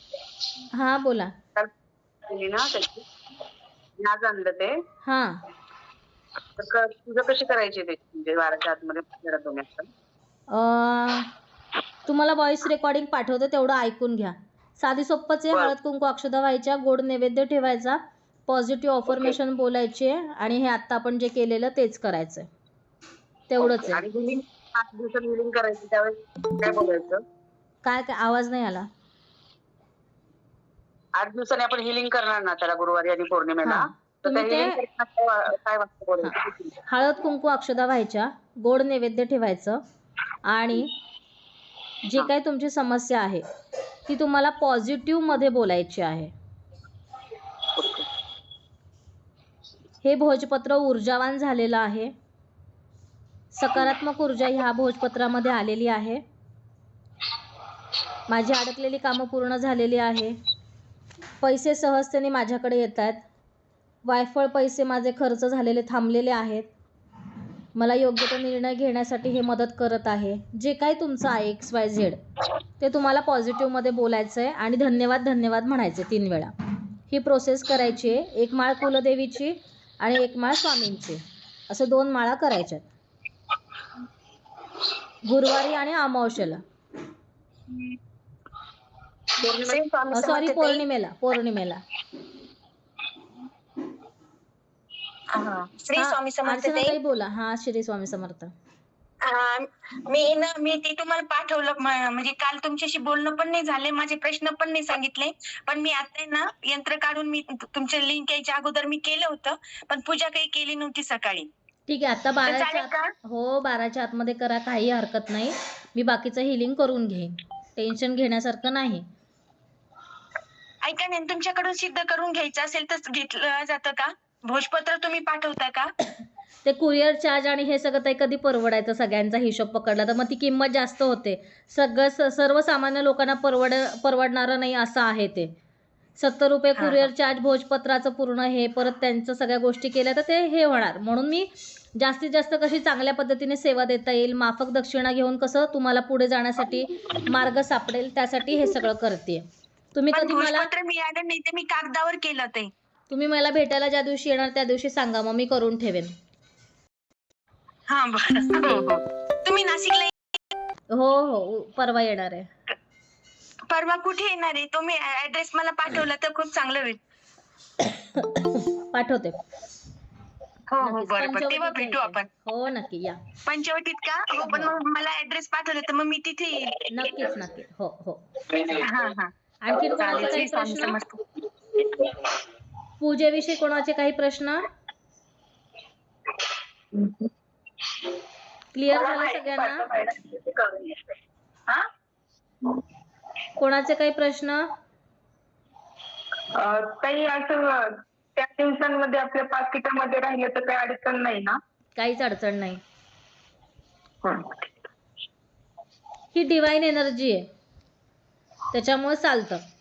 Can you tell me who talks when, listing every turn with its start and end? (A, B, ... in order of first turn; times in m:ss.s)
0:00.7-0:01.3 A
0:02.3-0:03.0 B
0:04.0-0:04.8 B
0:05.0-0:05.4 A
0:06.6-0:09.9 B
0:10.5-0:11.3 A
0:12.0-0:22.5 A
0:23.5-0:24.0 A
0:23.6-0:27.2 B
0:27.8-0:28.9 A
0:31.2-0:36.7 B
0:33.6-0:34.8 A
0:36.2-0:39.8 A
0:40.5-0:40.9 A
0:42.0-0:43.4 A
0:44.0-0:46.3 A
0:47.7-0:48.0 B
0:50.0-0:52.1 A
0:53.5-0:56.2 A
0:58.3-1:00.4 A
1:01.4-1:03.2 A
1:04.0-1:06.7 A
1:07.7-1:12.2 A
1:12.8-1:16.5 A
1:17.1-1:22.8 A
1:25.2-1:26.6 A
1:29.5-1:29.8 B
1:29.7-1:30.2 C
1:30.1-1:31.8 A
1:35.3-1:37.0 C
1:35.9-1:38.5 A
1:39.2-1:51.5 C
1:51.9-1:59.0 A
1:52.4-1:53.1 C
2:00.8-2:05.9 C
2:06.6-2:15.5 A
2:16.2-2:30.7 A
2:16.8-2:17.1 C
2:30.1-2:32.7 C
2:33.1-2:36.1 A
2:37.9-2:40.1 C
2:40.9-2:42.5 A
2:43.7-2:47.0 C
2:47.8-2:49.4 A
2:50.7-2:52.3 C
2:50.8-2:53.2 A
2:53.4-2:56.9 C
2:54.4-2:54.7 A
2:56.9-2:58.7 A
2:58.6-3:01.2 C
2:59.6-3:01.0 A
3:03.0-3:04.7 A
3:08.7-3:09.9 A
3:08.9-3:10.9 D
3:13.6-3:14.6 A
3:16.5-3:21.6 D
3:22.0-3:22.8 A
3:24.2-3:24.6 D
3:26.3-3:27.5 A
3:28.7-3:29.6 A